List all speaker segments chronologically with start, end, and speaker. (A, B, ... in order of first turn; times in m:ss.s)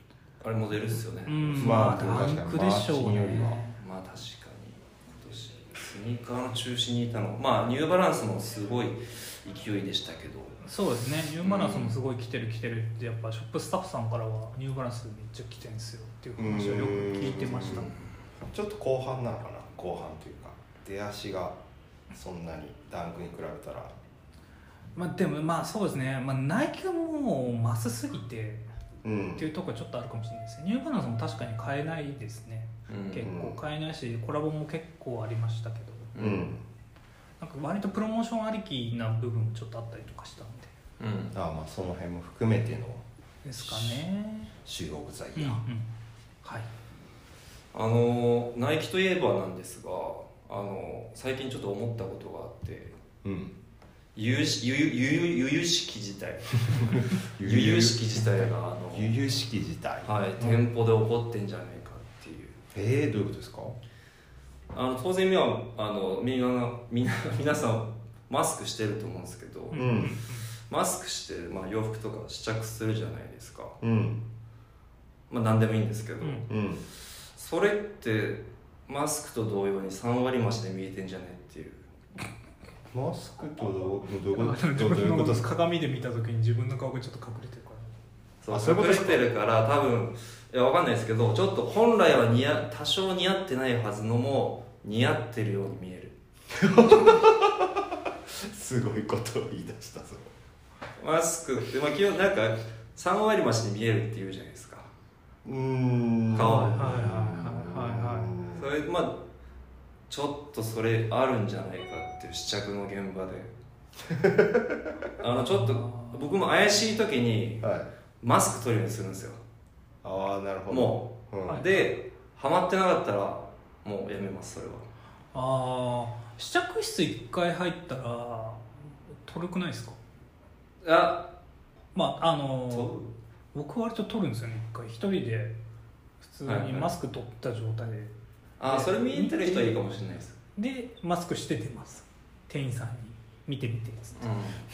0:00.4-0:01.9 A
0:01.3-0:03.8 B
0:01.5-0:03.6 C
0:03.7-0:10.6 A
0:10.6-0:17.9 B
0:11.4-0:12.0 A
0:16.4-0:21.6 C
0:22.1-0:23.9 C
0:25.0-0:28.6 B
0:29.0-0:29.5 C
0:29.4-0:36.2 B
0:32.9-0:33.3 A
0:33.2-0:33.6 C
0:36.2-0:36.4 A
0:36.2-0:36.6 C
0:37.4-0:40.7 B
0:41.0-0:41.4 A
0:41.3-0:43.0 C
0:43.4-0:44.6 B
0:43.6-0:44.0 C
0:44.6-0:45.6 C
0:45.4-0:45.9 B
0:46.4-0:46.7 B
0:47.7-0:53.0 A
0:53.2-0:53.6 C
0:54.2-0:59.2 A
0:56.7-0:58.2 C
0:58.9-1:00.6 C
1:00.0-1:02.6 A
1:02.7-1:03.8 C
1:04.7-1:09.9 A
1:09.7-1:10.5 B
1:09.7-1:10.2 C
1:10.7-1:13.8 A
1:13.8-1:14.2 C
1:15.3-1:16.5 A
1:16.2-1:16.5 B
1:16.5-1:16.8 C
1:17.4-1:21.9 A
1:22.9-1:25.5 C
1:24.3-1:27.9 B
1:28.4-1:36.2 A
1:28.5-1:29.2 C
1:36.5-1:40.3 C
1:41.0-1:44.9 A
1:45.4-1:48.6 C
1:46.3-1:46.9 A
1:46.4-1:48.4 B
1:48.6-1:49.2 A
1:50.1-1:53.5 A
1:54.1-1:54.9 C
1:55.2-1:57.7 A
1:55.5-1:56.4 B
1:57.6-1:57.9 C
1:58.2-1:59.4 A
2:00.0-2:01.6 C
2:00.7-2:04.9 A
2:01.5-2:01.8 B
2:05.3-2:08.7 B
2:09.2-2:10.0 B
2:10.8-2:11.3 A
2:11.9-2:12.9 B
2:12.7-2:13.1 A
2:13.5-2:15.6 B
2:16.2-2:19.8 B
2:16.4-2:16.9 A
2:18.6-2:20.4 A
2:20.6-2:24.2 B
2:24.2-2:24.6 A